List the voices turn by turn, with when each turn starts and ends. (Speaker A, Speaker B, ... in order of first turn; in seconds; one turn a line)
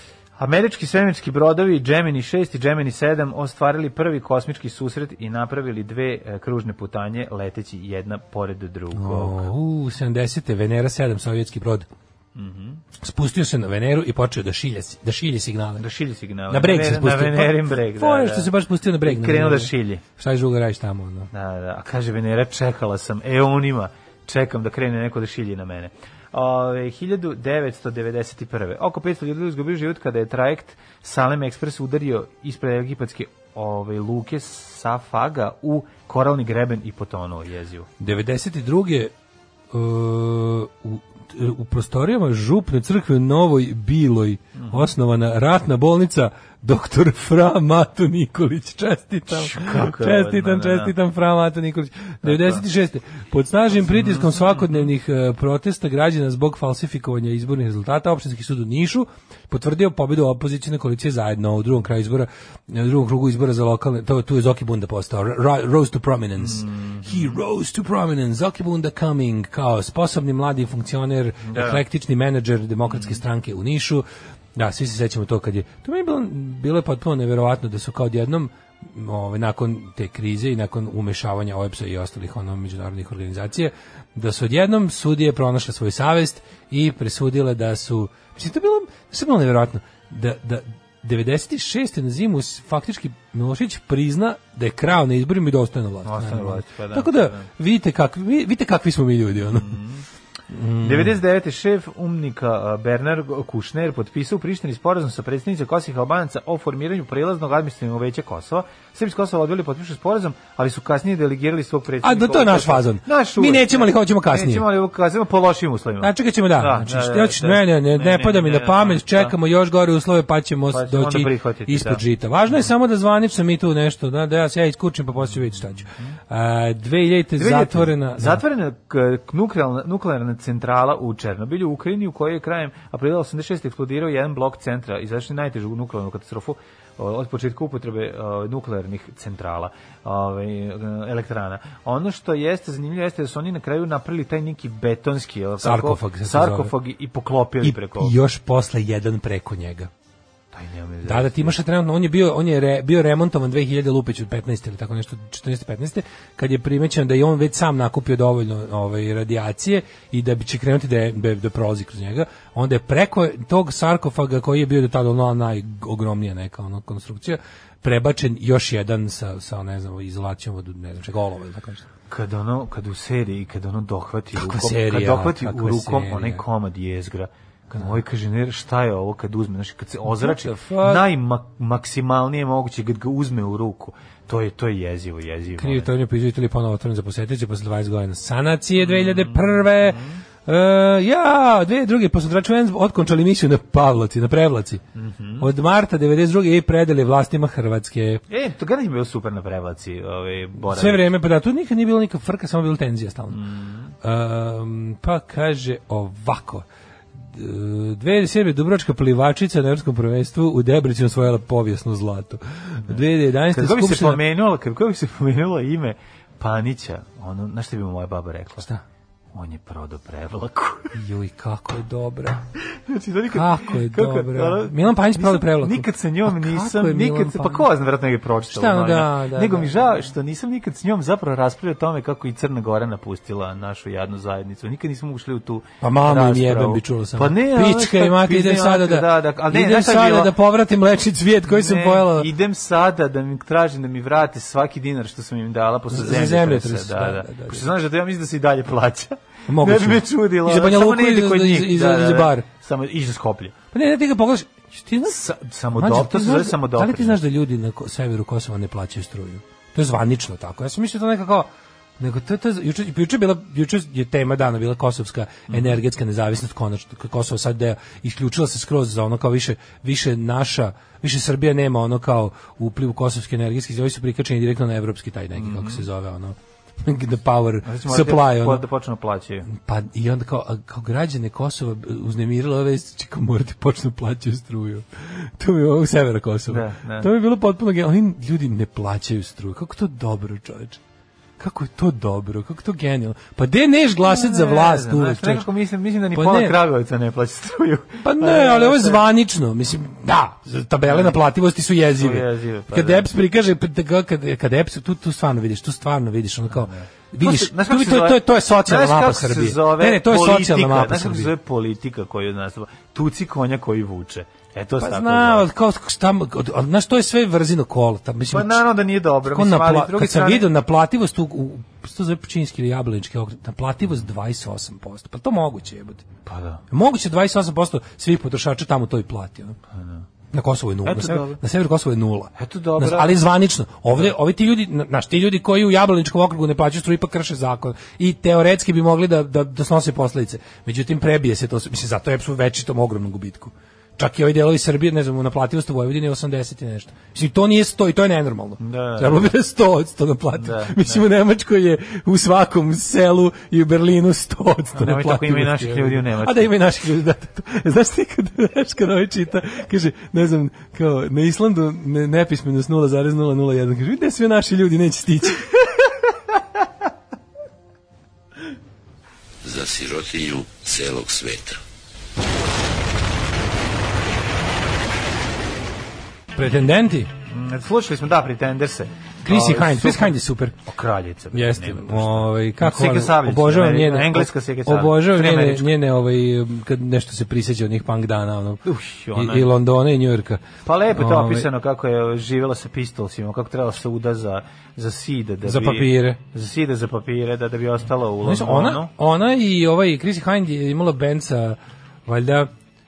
Speaker A: 0.4-9.4
Speaker B: 8.9-11.9
Speaker A: 12.3-12.8
Speaker B: 13.0-15.8
Speaker A: 15.8-18.5
Speaker B: 16.5-21.3
Speaker A: 19.0-20.0
Speaker A: 21.3-37.9
Speaker B: 38.0-39.1
Speaker B: 39.7-99.8
Speaker A: 44.5-44.9
Speaker A: 49.3-50.9
Speaker A: 52.2-52.6
Speaker A: 53.8-54.9
Speaker A: 66.4-67.2
Speaker A: 71.5-71.8
Speaker A: 72.9-73.2
Speaker A: 96.0-97.5
Speaker A: 99.4-100.0
Speaker B: 100.5-101.2
Speaker A: 100.8-119.3
Speaker B: 112.0-114.7
Speaker B: 116.0-128.4
Speaker A: 120.7-122.0
Speaker A: 127.4-148.1
Speaker B: 145.6-146.7
Speaker B: 147.6-149.9
Speaker A: 150.5-151.6
Speaker B: 151.1-171.9
Speaker A: 172.1-185.9
Speaker B: 174.3-176.4
Speaker B: 180.1-181.1
Speaker B: 185.6-194.8
Speaker A: 188.8-190.2
Speaker A: 194.9-195.5
Speaker B: 195.4-198.2
Speaker A: 198.3-201.1
Speaker B: 200.7-203.4
Speaker A: 203.3-203.9
Speaker B: 204.0-206.7
Speaker B: 207.2-214.2
Speaker A: 213.5-218.7
Speaker A: 219.3-220.9
Speaker B: 220.9-222.4
Speaker A: 222.7-240.3
Speaker B: 223.3-227.7
Speaker B: 228.5-229.9
Speaker B: 235.8-242.3
Speaker A: 241.5-253.6
Speaker B: 245.9-247.7
Speaker B: 249.5-252.4
Speaker B: 253.7-255.2
Speaker A: 255.1-257.2
Speaker B: 255.8-278.6
Speaker A: 265.5-265.8
Speaker A: 275.4-275.8
Speaker A: 277.6-279.5
Speaker B: 279.5-290.8
Speaker A: 286.5-287.1
Speaker B: 291.4-295.5
Speaker A: 294.1-299.0
Speaker B: 296.1-296.6
Speaker B: 298.0-311.3
Speaker A: 300.9-301.1
Speaker A: 301.9-303.1
Speaker A: 306.5-315.5
Speaker B: 314.8-318.6
Speaker A: 318.3-320.5
Speaker B: 319.3-326.1
Speaker A: 326.3-326.6
Speaker B: 326.7-329.6
Speaker A: 329.8-330.0
Speaker B: 330.3-365.7
Speaker A: 330.9-331.4
Speaker A: 332.4-333.2
Speaker A: 348.6-349.3
Speaker A: 350.4-351.0
Speaker A: 354.7-356.5
Speaker C: 369.4-371.6
Speaker B: 376.4-377.1
Speaker A: 377.3-385.7
Speaker B: 379.2-380.6
Speaker B: 381.3-391.5
Speaker A: 388.6-389.5
Speaker A: 390.6-398.9
Speaker B: 395.4-396.2
Speaker B: 398.2-402.5